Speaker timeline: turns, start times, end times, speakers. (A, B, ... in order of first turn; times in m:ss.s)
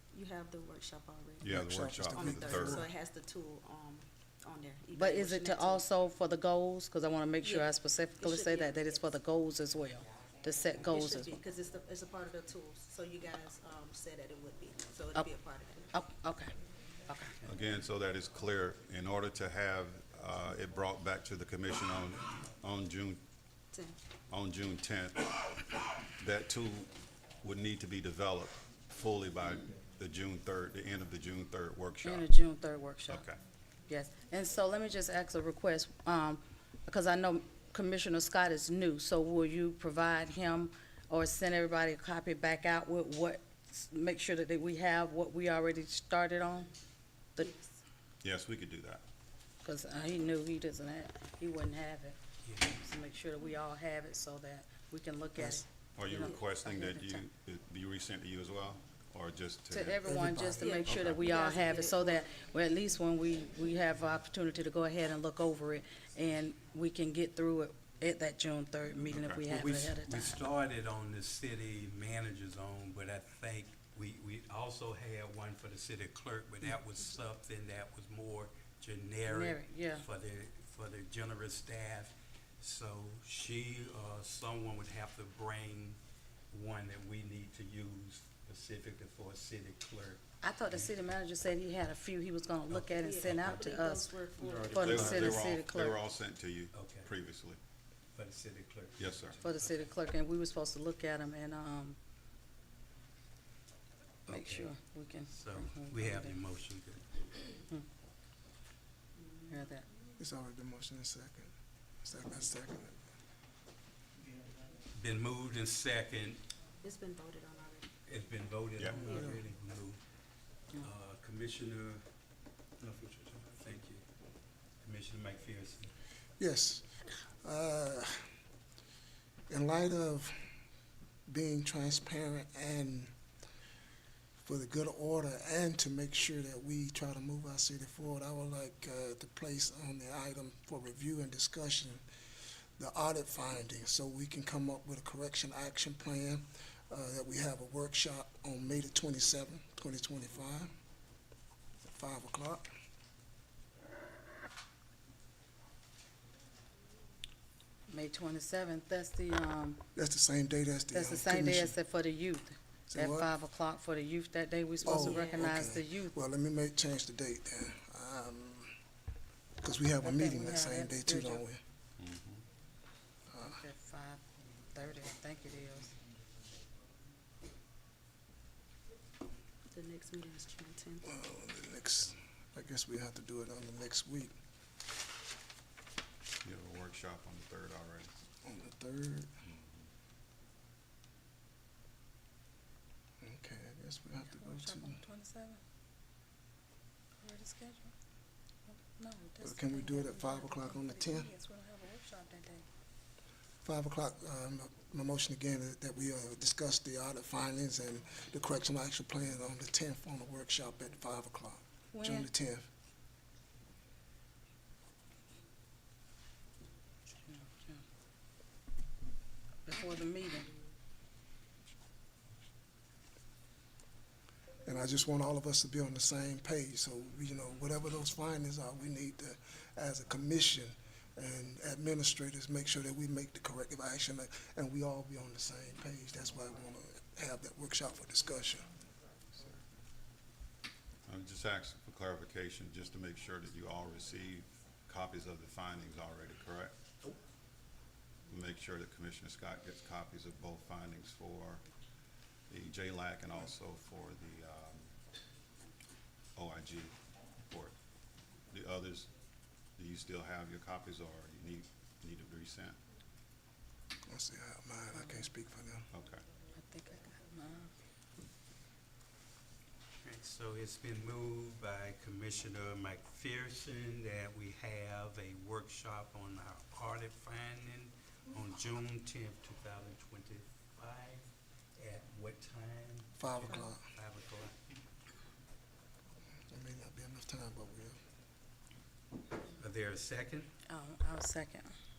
0:00.1-0:01.6 A
0:01.4-0:02.8 B
0:01.4-0:02.9 C
0:02.1-0:05.8 A
0:04.9-0:11.3 D
0:07.4-0:09.1 A
0:10.8-0:15.9 A
0:15.9-0:16.5 D
0:17.1-0:17.4 D
0:17.4-0:23.2 B
0:23.7-0:24.0 A
0:24.3-0:26.9 B
0:27.4-0:32.3 B
0:32.0-0:33.3 D
0:33.1-0:33.4 B
0:33.9-0:46.7 D
0:47.4-0:47.7 A
0:48.2-0:49.0 B
0:49.6-0:57.2 D
0:52.4-0:52.8 E
0:55.4-0:55.6 C
0:56.0-1:00.1 B
0:59.7-1:10.4 D
1:00.0-1:00.8 C
1:00.6-1:02.2 A
1:00.8-1:01.2 B
1:09.1-1:09.5 B
1:09.5-1:26.0 E
1:19.3-1:20.0 D
1:26.5-1:30.9 E
1:30.4-1:34.1 D
1:32.7-1:33.6 E
1:32.8-1:35.1 A
1:34.4-1:35.5 E
1:34.7-1:36.0 D
1:34.7-1:37.6 B
1:36.7-1:37.1 E
1:38.1-1:39.9 E
1:39.0-1:39.4 B
1:39.4-1:42.0 D
1:44.3-1:46.4 D
1:44.3-1:44.7 E
1:45.3-1:47.0 E
1:49.2-1:49.5 A
1:49.5-1:49.8 D
1:50.2-1:51.5 C
1:52.0-1:53.0 C
1:54.9-1:56.4 E
1:56.8-1:57.9 A
1:58.0-2:00.0 E
1:58.8-1:59.0 B
1:59.0-1:59.4 C
2:00.7-2:02.0 E
2:02.8-2:04.0 E
2:04.8-2:05.9 E
2:06.4-2:06.9 C
2:07.4-2:08.3 C
2:09.5-2:10.4 C
2:11.3-2:13.1 C
2:14.4-2:22.0 C
2:22.8-2:30.7 C
2:31.8-2:32.7 C
2:37.9-2:39.8 D
2:39.9-2:41.7 C
2:40.9-2:46.1 D
2:42.9-2:43.3 C
2:44.8-2:48.8 C
2:44.9-2:45.4 A
2:49.6-2:51.6 C
2:50.0-2:51.4 D
2:52.0-2:52.4 B
2:53.3-2:53.6 C
2:53.4-2:55.9 D
2:59.7-3:01.0 A
3:01.0-3:04.4 C
3:06.4-3:08.1 B
3:08.4-3:09.3 C
3:09.4-3:09.9 B
3:13.2-3:15.0 C
3:14.3-3:15.6 D
3:17.2-3:17.9 D
3:18.7-3:22.6 D
3:19.4-3:21.3 C
3:23.6-3:32.7 C
3:31.9-3:32.3 D
3:37.2-3:37.8 D
3:39.6-3:40.5 D
3:44.6-3:58.7 C
3:59.3-3:59.6 B
4:01.1-4:06.8 B
4:08.3-4:11.7 B
4:12.5-4:14.9 B
4:16.4-4:17.8 B
4:18.5-4:19.1 B
4:19.8-4:22.8 B
4:24.1-4:25.9 C
4:24.9-4:25.3 D
4:25.9-4:26.2 B
4:26.5-4:27.7 D
4:30.0-4:44.5 E
4:43.2-4:43.8 C
4:46.5-4:48.0 C
4:49.6-4:50.5 E
4:50.7-4:51.7 D